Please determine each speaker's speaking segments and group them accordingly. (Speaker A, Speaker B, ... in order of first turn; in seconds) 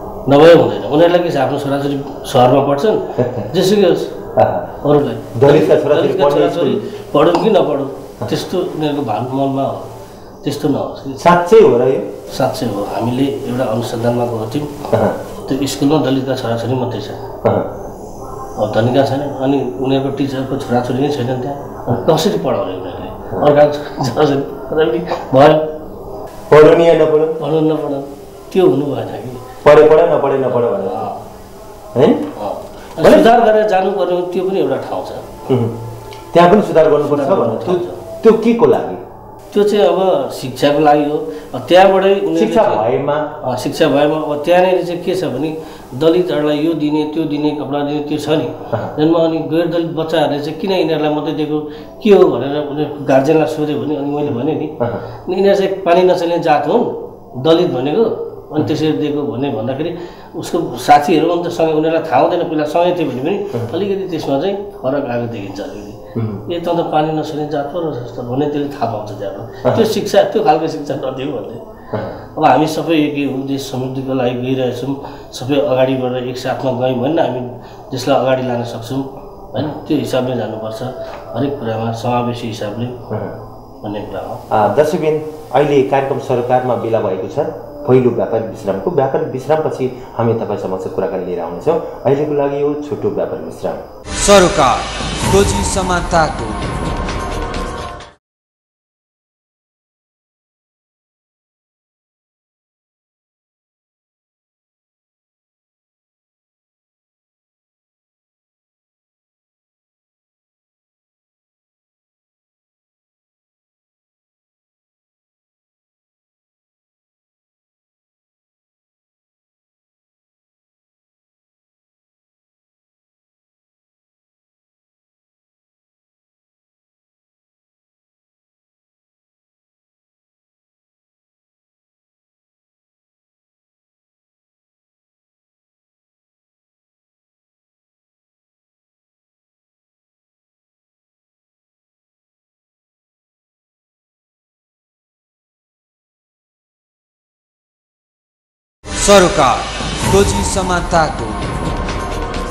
Speaker A: 0.3-4.2, 4.8-9.9, 10.4-11.2, 12.3-14.9, 15.5-17.2, 18.6-25.7, 27.4-29.5, 30.5-31.2, 32.4-35.3, 37.0-38.0, 39.5-42.9, 43.4-71.6, 72.3-83.0, 83.8-84.6
Speaker B: 3.2-3.5, 4.3-4.7, 5.3-6.8, 11.2-12.1, 14.9-15.2, 17.4-17.7, 26.5-27.4, 29.6-31.1, 31.9-32.2, 33.0-33.3, 35.5-35.8, 36.3-39.0, 42.4-43.3, 66.2-66.4, 83.1-83.4, 84.5-93.8
Speaker C: 94.2-96.7, 149.0-151.5